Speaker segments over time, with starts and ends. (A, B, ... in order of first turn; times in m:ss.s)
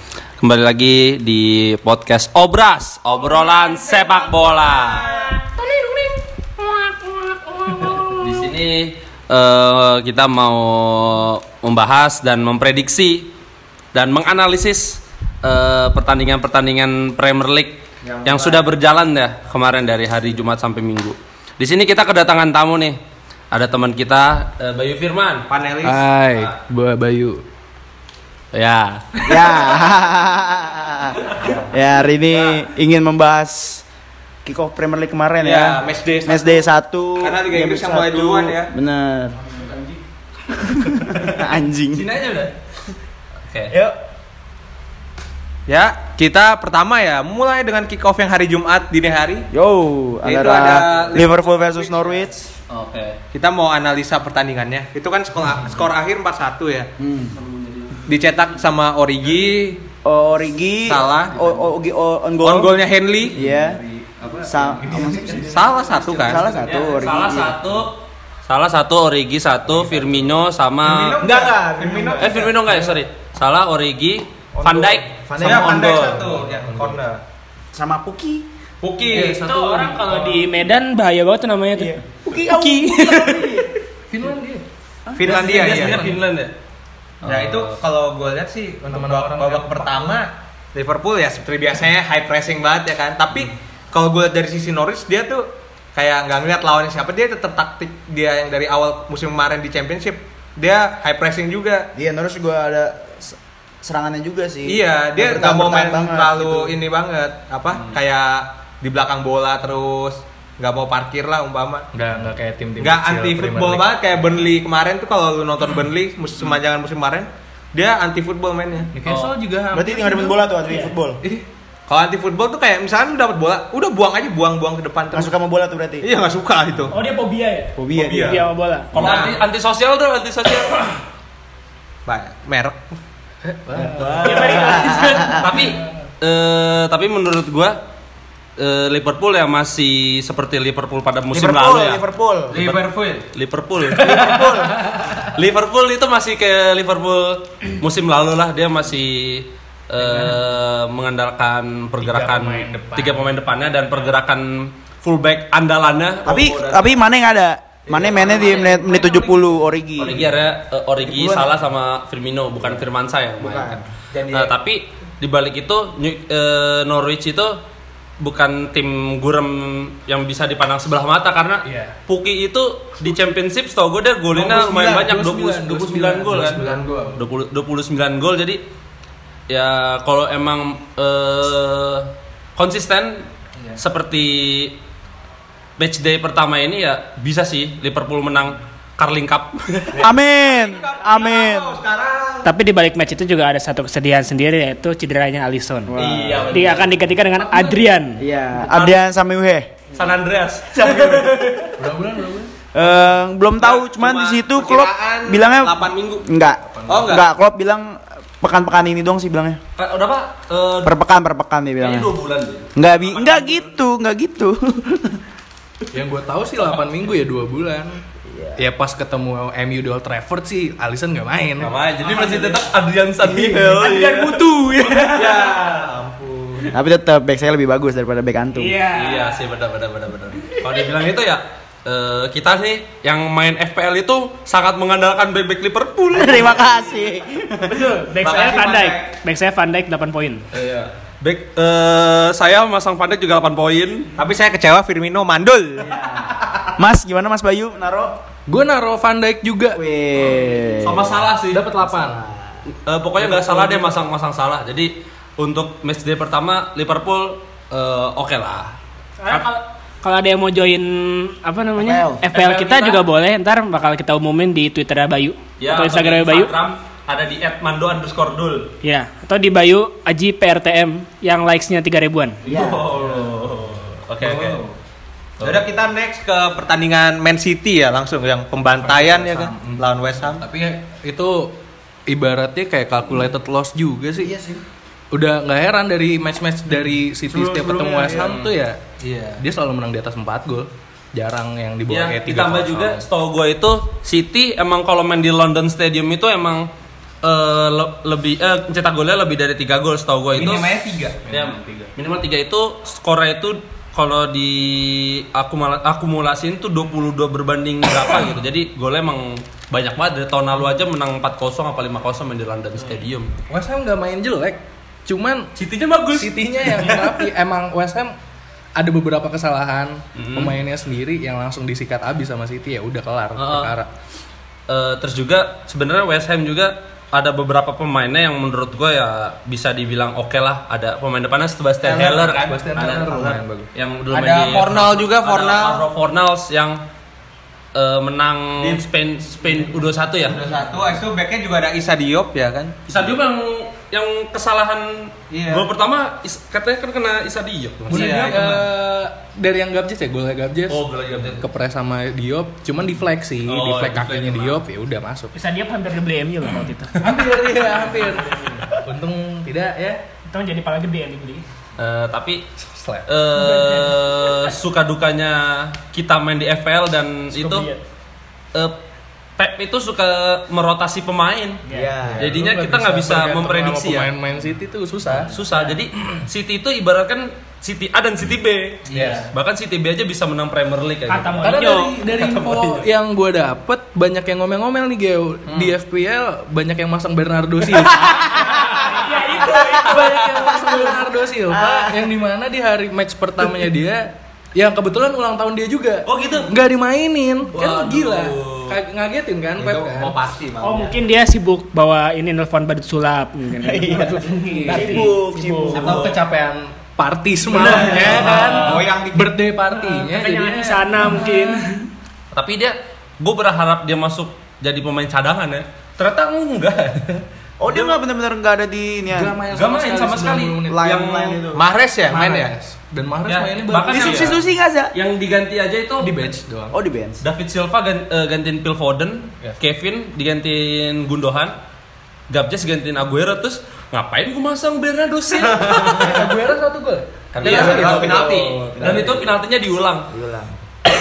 0:00.4-0:05.1 A
0:04.0-0:05.3 B
0:05.4-0:06.0 C
0:07.8-0:13.3 A
0:13.9-0:23.0 A
0:18.0-0:18.7 B
0:23.5-0:25.5 A
0:25.5-0:26.1 B
0:25.8-0:27.4 D
0:28.5-0:29.7 A
0:29.2-0:33.8 E
0:32.3-0:32.6 B
0:34.4-0:39.4 E
0:35.4-0:38.7 B
0:40.5-0:42.1 E
0:41.9-0:42.5 A
0:43.5-0:43.8 A
0:43.7-0:44.0 E
0:45.7-0:49.5 B
0:49.5-0:52.3 E
0:50.2-0:52.4 B
0:50.7-0:51.2 A
0:52.7-0:53.2 A
0:53.3-0:56.9 B
0:57.0-0:57.4 E
0:57.4-0:58.2 A
0:58.1-0:59.8 B
1:00.0-1:02.8 E
1:00.9-1:01.5 B
1:02.4-1:03.4 B
1:03.3-1:03.8 E
1:03.4-1:07.1 D
1:04.5-1:05.6 E
1:05.5-1:06.5 B
1:06.2-1:07.6 E
1:06.5-1:08.0 A
1:08.5-1:11.2 A
1:09.7-1:10.4 D
1:10.8-1:12.9 B
1:11.2-1:12.9 E
1:12.2-1:16.3 A
1:14.5-1:15.8 E
1:15.4-1:17.2 B
1:15.8-1:17.0 D
1:17.7-1:18.5 E
1:18.8-1:19.4 B
1:19.1-1:20.5 A
1:19.1-1:23.7 C
1:21.8-1:23.7 E
1:24.1-1:24.6 D
1:25.2-1:26.2 B
1:25.2-1:26.5 A
1:25.5-1:25.9 D
1:27.2-1:27.8 A
1:27.2-1:41.9 B
1:28.9-1:30.2 D
1:42.0-1:46.8 E
1:44.7-1:51.9 B
1:51.9-1:53.9 D
1:52.8-1:58.9 B
1:58.9-2:00.6 D
1:59.1-1:59.4 A
1:59.7-2:01.2 E
2:01.9-2:05.3 B
2:05.1-2:06.1 E
2:06.0-2:07.0 B
2:06.9-2:08.9 C
2:07.8-2:08.4 E
2:08.0-2:09.4 B
2:08.9-2:11.0 A
2:12.1-2:12.8 B
2:13.4-2:14.5 D
2:13.8-2:15.4 E
2:14.0-2:15.6 C
2:15.3-2:17.8 A
2:18.6-2:24.3 A
2:21.3-2:22.6 E
2:22.5-2:23.3 B
2:24.0-2:24.8 E
2:24.3-2:25.2 D
2:25.2-2:37.0 A
2:30.0-2:30.4 D
2:32.0-2:33.3 D
2:36.2-2:40.2 E
2:37.9-2:39.4 B
2:38.2-2:38.9 A
2:40.0-2:47.6 A
2:41.0-2:41.6 E
2:43.4-2:43.8 E
2:44.1-2:44.5 B
2:48.2-2:58.6 A
2:51.6-2:52.0 D
2:54.4-2:57.2 D
2:56.6-2:56.9 B
2:59.5-3:04.8 A
3:05.8-3:10.1 A
3:09.9-3:12.5 B
3:10.0-3:11.8 E
3:12.4-3:15.9 C
3:15.9-3:16.7 E
3:16.0-3:17.0 A
3:16.5-3:18.2 C
3:17.3-3:17.9 D
3:18.2-3:19.7 E
3:18.6-3:19.0 A
3:19.9-3:21.6 A
3:20.8-3:21.5 E
3:20.9-3:21.3 B
3:21.8-3:22.5 D
3:22.7-3:29.6 E
3:23.6-3:26.3 B
3:26.6-3:27.2 D
3:26.9-3:27.3 B
3:29.8-3:31.0 A
3:30.8-3:32.1 E
3:31.8-3:33.7 A
3:32.8-3:35.2 E
3:35.9-3:38.0 D
3:38.3-3:38.6 E
3:38.6-3:41.8 D
3:41.6-3:44.4 A
3:42.1-3:42.4 C
3:43.2-3:45.6 E
3:43.8-3:45.3 C
3:45.1-3:46.7 B
3:46.7-3:48.8 E
3:48.6-3:49.5 C
3:48.9-3:56.7 A
3:56.1-3:57.8 E
3:57.6-4:00.5 C
3:58.2-3:59.1 B
4:00.5-4:04.1 A
4:04.2-4:06.3 B
4:05.9-4:08.2 E
4:08.5-4:09.8 D
4:09.7-4:11.2 E
4:10.8-4:11.6 A
4:11.5-4:12.2 D
4:11.8-4:12.5 E
4:12.8-4:18.8 A
4:13.3-4:13.9 D
4:19.2-4:26.5 C
4:21.8-4:22.2 E
4:22.3-4:23.0 A
4:25.6-4:28.7 A
4:28.8-4:32.4 C
4:32.4-4:32.9 E
4:32.5-4:34.6 A
4:34.2-4:34.6 B
4:35.4-4:35.8 A
4:35.4-4:40.5 B
4:38.8-4:41.6 D
4:42.1-4:44.3 D
4:44.2-4:44.6 E
4:45.1-4:48.8 D
4:47.3-4:48.5 B
4:48.1-4:48.5 A
4:49.0-4:49.4 B
4:49.4-4:53.0 D
4:51.9-4:56.7 A
4:57.2-5:00.7 A
5:00.4-5:01.2 B
5:01.2-5:01.9 D
5:01.3-5:13.4 A
5:13.5-5:15.5 D
5:15.6-5:17.0 A
5:16.1-5:18.2 D
5:18.8-5:23.9 D
5:20.2-5:20.6 A
5:23.4-5:23.7 A
5:24.7-5:36.8 A
5:31.8-5:33.4 B
5:32.0-5:33.7 D
5:34.1-5:35.8 B
5:37.7-5:40.4 A
5:40.2-5:42.8 B
5:42.9-5:48.4 A
5:45.3-5:45.7 B
5:47.9-5:55.3 D
5:47.9-5:48.7 B
5:50.7-5:51.5 A
5:53.4-5:54.6 A
5:55.3-5:58.7 C
5:57.0-6:00.0 D
6:00.3-6:01.4 C
6:01.8-6:02.5 A
6:02.6-6:03.1 D
6:03.1-6:07.7 A
6:03.4-6:04.5 C
6:07.3-6:07.8 C
6:09.4-6:11.6 A
6:11.7-6:11.9 C
6:11.7-6:12.4 E
6:12.0-6:15.4 D
6:12.2-6:14.1 A
6:15.2-6:21.4 A
6:18.9-6:19.3 B
6:18.9-6:19.3 D
6:21.1-6:22.0 C
6:21.4-6:40.2 D
6:22.2-6:22.6 A
6:22.5-6:22.7 B
6:28.5-6:30.3 C
6:30.4-6:32.1 E
6:36.1-6:36.5 A
6:37.5-6:38.8 A
6:39.6-6:41.0 B
6:40.6-6:45.9 C
6:43.6-6:46.0 E
6:44.5-6:45.1 D
6:45.7-6:51.7 D
6:45.8-6:46.1 A
6:47.5-6:49.4 B
6:47.6-6:48.1 E
6:47.8-6:48.4 C
6:48.0-6:48.8 A
6:49.7-6:51.9 C
6:52.3-6:58.0 A
6:57.6-6:59.4 E
6:59.1-7:00.9 D
6:59.5-7:01.4 A
7:00.7-7:01.6 E
7:01.5-7:02.5 B
7:02.1-7:04.4 D
7:03.3-7:04.4 A
7:03.9-7:04.9 E
7:04.9-7:06.3 A
7:06.0-7:06.8 D
7:06.7-7:07.2 E
7:07.2-7:11.6 A
7:12.3-7:16.3 A
7:15.4-7:19.1 D
7:17.3-7:20.1 A
7:17.4-7:18.8 B
7:17.6-7:18.1 E
7:18.7-7:19.3 E
7:20.1-7:20.5 E